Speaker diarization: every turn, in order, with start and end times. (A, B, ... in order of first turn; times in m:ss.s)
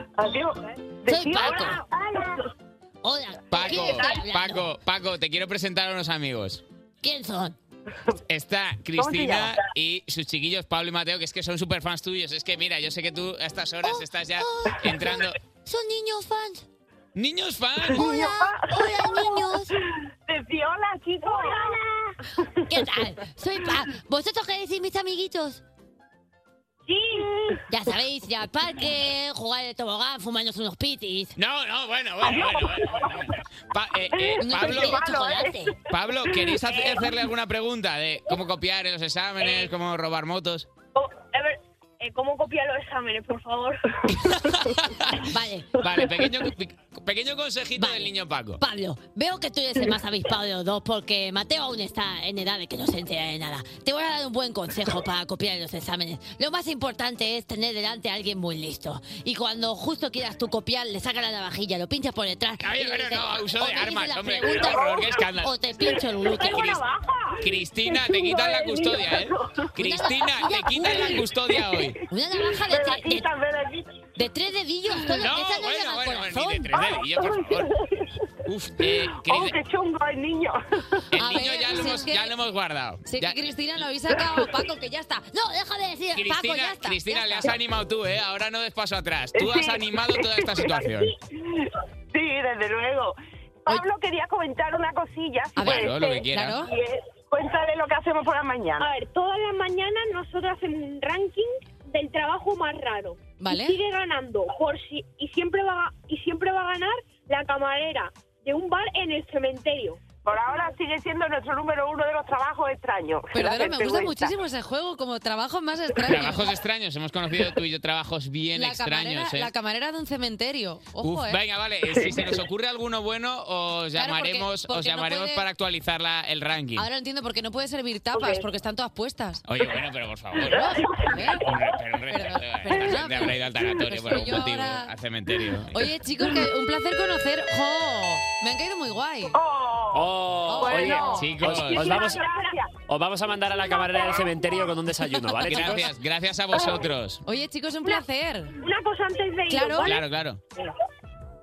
0:00.2-0:02.2 A
0:01.1-0:01.8 B
0:03.0-0:04.6 B
0:03.5-0:06.6 C
0:07.0-0:07.6 B
0:08.3-0:15.4 C
0:09.0-0:09.6 A
0:13.8-0:16.6 B
0:17.1-0:18.1 C
0:18.0-0:18.5 A
0:18.0-0:19.7 B
0:20.3-0:21.7 A
0:21.3-0:22.1 D
0:22.7-0:25.6 B
0:26.9-0:27.6 D
0:27.7-0:31.3 B
0:31.4-0:35.1 C
0:34.4-0:34.9 E
0:34.4-0:35.7 B
0:34.7-0:35.6 A
0:35.9-0:40.7 C
0:36.7-0:37.0 D
0:39.4-0:39.7 D
0:41.0-0:43.8 D
0:44.3-0:45.2 C
0:45.3-0:45.7 B
0:45.8-0:48.6 C
0:47.8-1:06.7 B
1:02.6-1:05.6 C
1:06.3-1:07.3 D
1:06.4-1:06.8 C
1:07.4-1:12.0 C
1:08.2-1:09.7 A
1:09.8-1:11.2 B
1:12.1-1:13.3 B
1:12.6-1:13.9 A
1:14.2-1:16.7 B
1:15.1-1:17.7 C
1:17.0-1:17.7 A
1:18.4-1:19.6 C
1:18.8-1:21.0 A
1:21.1-1:23.4 C
1:21.1-1:22.3 E
1:23.0-1:25.3 E
1:25.3-1:26.4 B
1:26.1-1:31.1 C
1:26.2-1:27.5 E
1:29.3-1:30.9 A
1:31.6-1:38.9 A
1:35.6-1:36.7 E
1:35.6-1:36.6 C
1:38.8-1:50.0 D
1:43.4-1:43.8 E
1:50.2-1:54.3 A
1:53.3-1:56.4 E
1:56.0-1:59.5 C
1:58.5-2:01.4 E
2:01.0-2:06.8 C
2:01.9-2:02.3 A
2:04.0-2:05.4 E
2:06.8-2:09.4 E
2:08.1-2:08.4 A
2:09.5-2:15.9 C
2:10.5-2:11.5 E
2:12.1-2:14.9 E
2:15.7-2:19.3 E
2:19.3-2:22.7 A
2:19.9-2:22.2 F
2:20.5-2:21.1 E
2:21.1-2:22.0 C
2:22.2-2:22.4 D
2:22.9-2:25.9 F
2:25.5-2:27.2 C
2:27.2-2:28.6 E
2:28.6-2:30.0 D
2:29.5-2:30.0 E
2:29.8-2:30.4 C